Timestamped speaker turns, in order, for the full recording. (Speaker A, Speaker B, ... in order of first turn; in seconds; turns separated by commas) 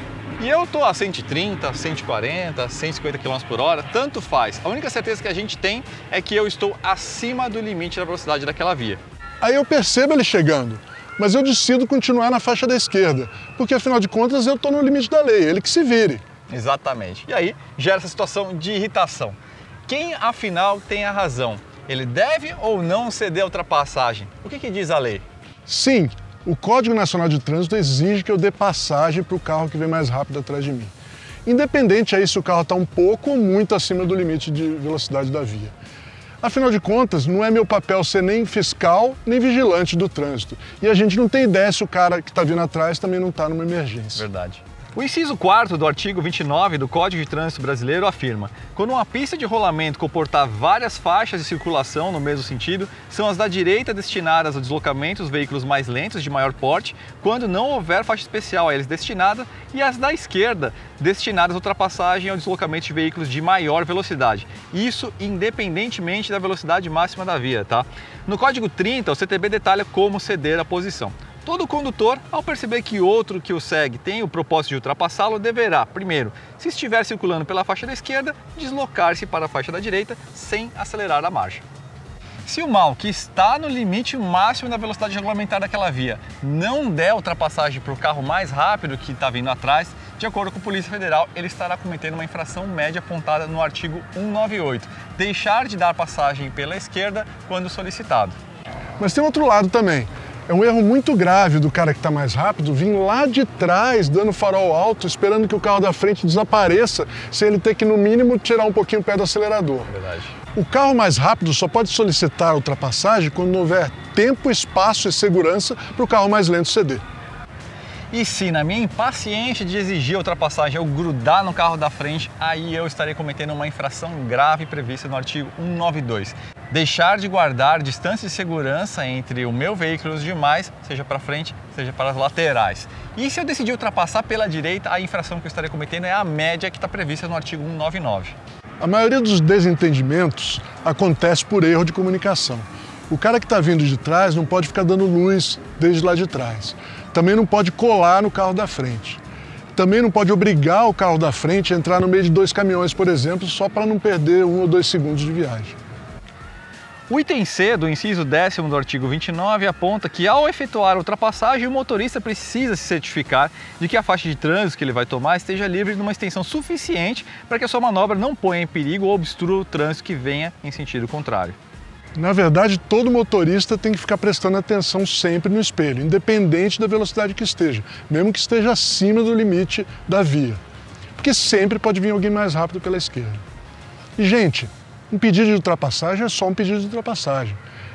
Speaker A: 0.4-9.0, Speaker B: 9.4-16.2, Speaker A: 16.5-25.2, Speaker B: 25.7-30.9, Speaker B: 31.4-35.7, Speaker B: 36.4-44.2, Speaker A: 44.1-81.6, Speaker A: 82.5-98.4, Speaker B: 99.0-109.9, Speaker A: 109.9-110.3, Speaker B: 110.5-117.0, Speaker A: 118.1-138.3, Speaker B: 138.8-149.2, Speaker B: 149.8-155.8, Speaker A: 157.1-171.6, Speaker B: 172.2-180.6, Speaker B: 181.2-183.4, Speaker B: 184.2-187.6